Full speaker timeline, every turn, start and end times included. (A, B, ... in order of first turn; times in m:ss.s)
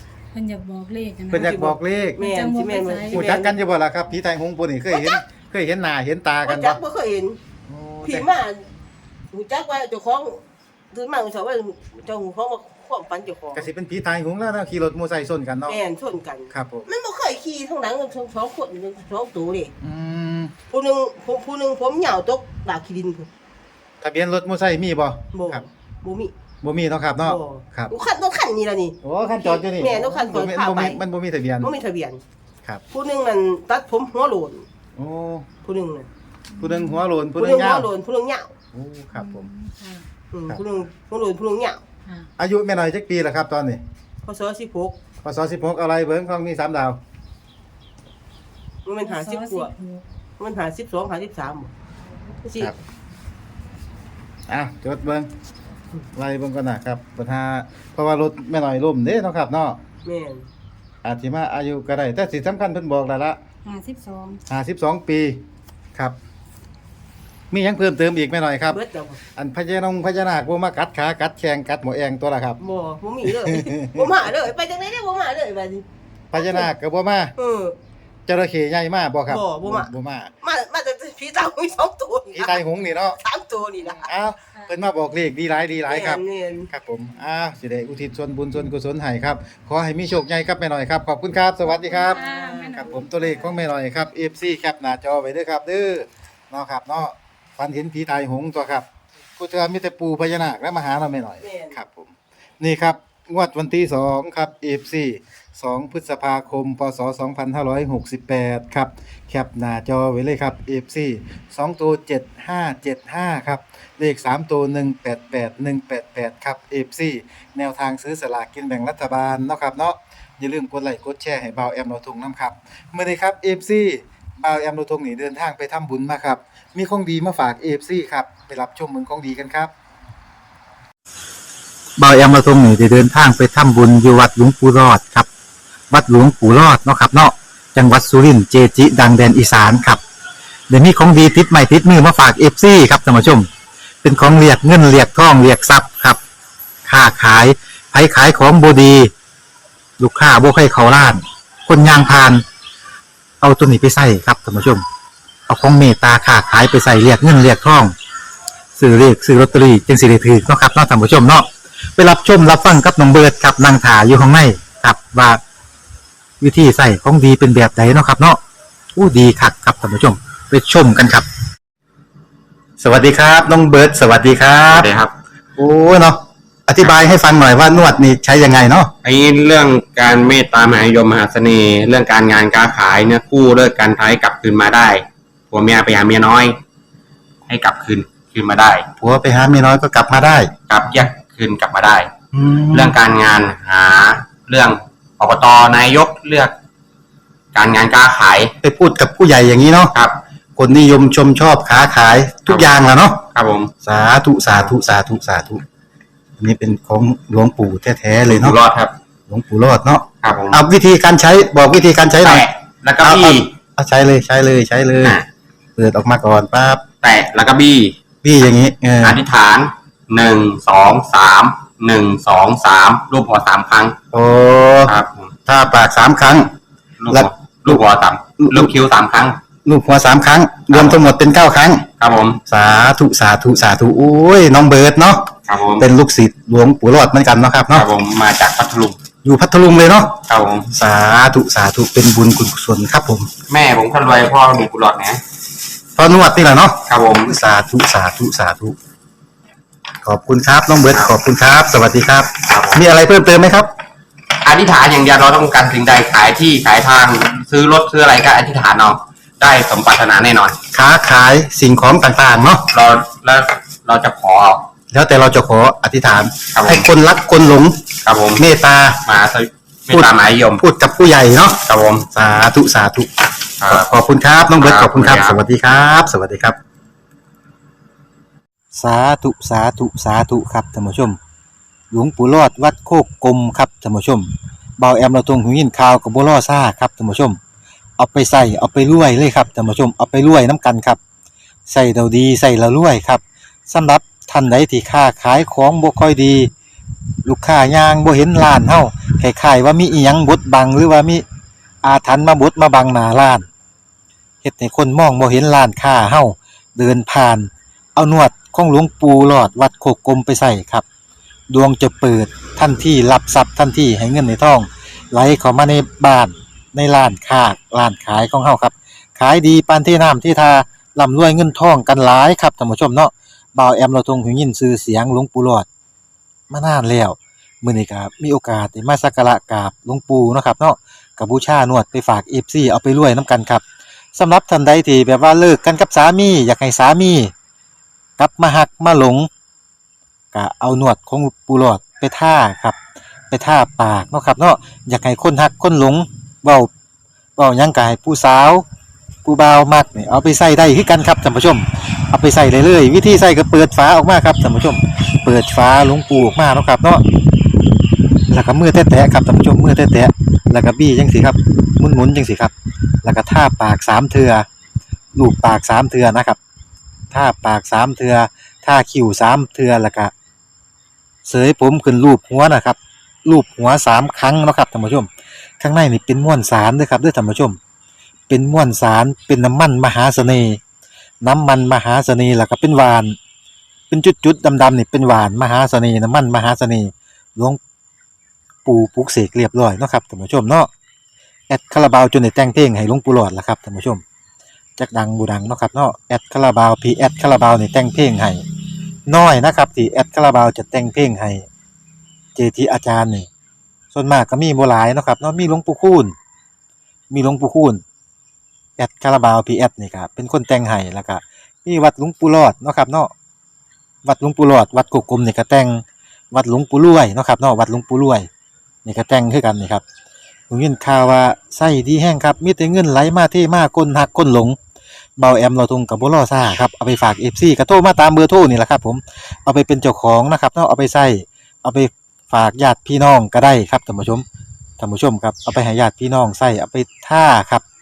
0:00.3-0:01.6 A
0:01.3-0:02.2 B
0:01.3-0:03.6 C
0:02.2-0:03.3 A
0:03.1-0:06.8 B
0:04.9-0:05.2 C
0:06.4-0:07.4 C
0:07.7-0:08.3 B
0:08.0-0:08.7 C
0:09.3-0:13.7 C
0:13.6-0:15.8 B
0:15.7-0:19.7 C
0:16.5-0:16.9 B
0:19.8-0:20.6 B
0:20.7-0:23.3 C
0:24.0-0:25.6 B
0:25.3-0:26.3 C
0:26.6-0:27.9 B
0:27.2-0:31.0 C
0:29.0-0:31.7 B
0:31.6-0:32.2 C
0:32.9-0:34.7 C
0:35.0-0:35.5 B
0:35.6-0:36.1 C
0:36.5-0:37.0 A
0:36.6-0:37.9 B
0:37.4-0:38.5 C
0:38.7-0:39.5 B
0:39.1-0:40.1 A
0:40.3-0:41.8 C
0:42.4-0:43.8 B
0:44.2-0:45.0 C
0:45.2-0:47.0 B
0:48.8-0:49.7 C
0:49.0-0:50.0 A
0:50.4-0:51.7 C
0:52.4-0:52.7 C
0:54.5-0:55.3 B
0:56.2-0:59.8 B
1:00.0-1:00.5 C
1:01.0-1:03.4 B
1:03.6-1:04.4 A
1:04.5-1:05.4 B
1:07.5-1:08.8 B
1:08.7-1:09.2 C
1:09.4-1:12.6 B
1:12.6-1:16.7 C
1:13.5-1:14.2 B
1:16.3-1:17.4 B
1:17.4-1:17.8 C
1:18.3-1:20.3 B
1:19.3-1:19.9 C
1:20.4-1:24.1 C
1:22.3-1:23.2 B
1:23.8-1:32.2 B
1:25.9-1:26.7 C
1:31.7-1:33.6 A
1:32.1-1:33.0 C
1:32.8-1:38.8 B
1:39.4-2:09.7 B
1:41.4-1:41.8 C
2:12.0-2:15.3 B
2:15.9-2:20.0 B
2:20.7-2:23.5 B
2:24.0-2:26.2 B
2:26.9-2:29.1 B
2:30.0-2:32.4 B
2:33.4-2:34.8 B
2:35.5-2:37.9 B
2:38.8-2:45.4 B
2:46.4-2:48.4 B
2:49.0-2:51.2 B
2:52.8-2:54.9 B
2:54.7-2:55.1 D
2:55.6-2:58.9 B
2:59.0-3:06.6 D
3:07.5-3:08.9 D
3:09.0-3:10.5 B
3:10.7-3:12.1 D
3:12.3-3:13.0 B
3:12.7-3:16.6 D
3:17.5-3:18.5 D
3:18.6-3:19.9 B
3:20.6-3:23.2 B
3:23.3-3:23.7 D
3:23.8-3:25.6 B
3:26.4-3:28.6 B
3:28.2-3:29.0 D
3:29.3-3:32.5 B
3:30.2-3:30.6 D
3:32.2-3:33.5 D
3:33.0-3:35.2 B
3:35.8-3:36.8 B
3:37.0-3:38.0 D
3:38.2-3:39.2 B
3:39.0-3:44.0 D
3:44.1-3:44.9 B
3:44.9-3:45.4 D
3:45.5-3:46.5 B
3:47.0-3:49.4 D
3:47.1-3:47.8 B
3:48.4-3:48.7 B
3:49.6-3:51.9 B
3:50.7-3:51.1 D
3:52.0-3:52.4 D
3:52.5-3:57.9 B
3:55.5-3:55.9 D
3:57.7-3:59.0 D
3:59.2-4:00.2 B
4:00.3-4:00.7 D
4:00.7-4:03.3 B
4:03.5-4:05.2 D
4:06.0-4:08.8 B
4:06.9-4:07.4 D
4:10.0-4:13.7 B
4:12.5-4:12.8 D
4:14.4-4:20.6 D
4:20.7-4:22.7 B
4:22.7-4:24.7 D
4:24.9-4:27.8 B
4:26.5-4:26.9 D
4:28.0-4:28.5 D
4:28.4-4:29.0 B
4:29.0-4:30.6 D
4:29.9-4:31.6 B
4:31.6-4:32.1 D
4:32.1-4:36.6 B
4:33.6-4:33.9 D
4:34.6-4:35.4 D
4:38.7-4:41.2 B
4:41.9-4:47.4 B
4:48.0-4:51.0 B
4:51.7-4:56.5 B
4:57.2-5:01.2 B
5:01.8-5:03.5 B
5:04.4-5:10.8 B
5:11.5-5:25.7 B
5:26.5-5:37.3 B
5:38.2-5:39.3 B
5:40.3-5:42.8 B
5:43.3-5:46.7 B
5:47.4-5:48.6 B
5:49.2-5:57.0 B
5:58.3-6:02.5 B
6:03.0-6:04.5 B
6:05.2-6:06.4 B
6:07.1-6:10.1 B
6:11.3-6:17.6 B
6:18.3-6:20.6 B
6:21.2-6:23.2 B
6:23.9-6:27.6 B
6:28.6-6:30.7 B
6:31.5-6:34.0 B
6:34.8-6:38.4 B
6:39.1-6:41.5 B
6:42.4-6:43.3 B
6:43.9-6:46.1 B
6:47.1-6:47.8 B
6:48.8-6:53.1 B
6:54.0-6:58.3 B
6:58.8-6:59.8 B
7:00.5-7:04.6 B
7:05.2-7:14.2 B
7:14.8-7:17.6 B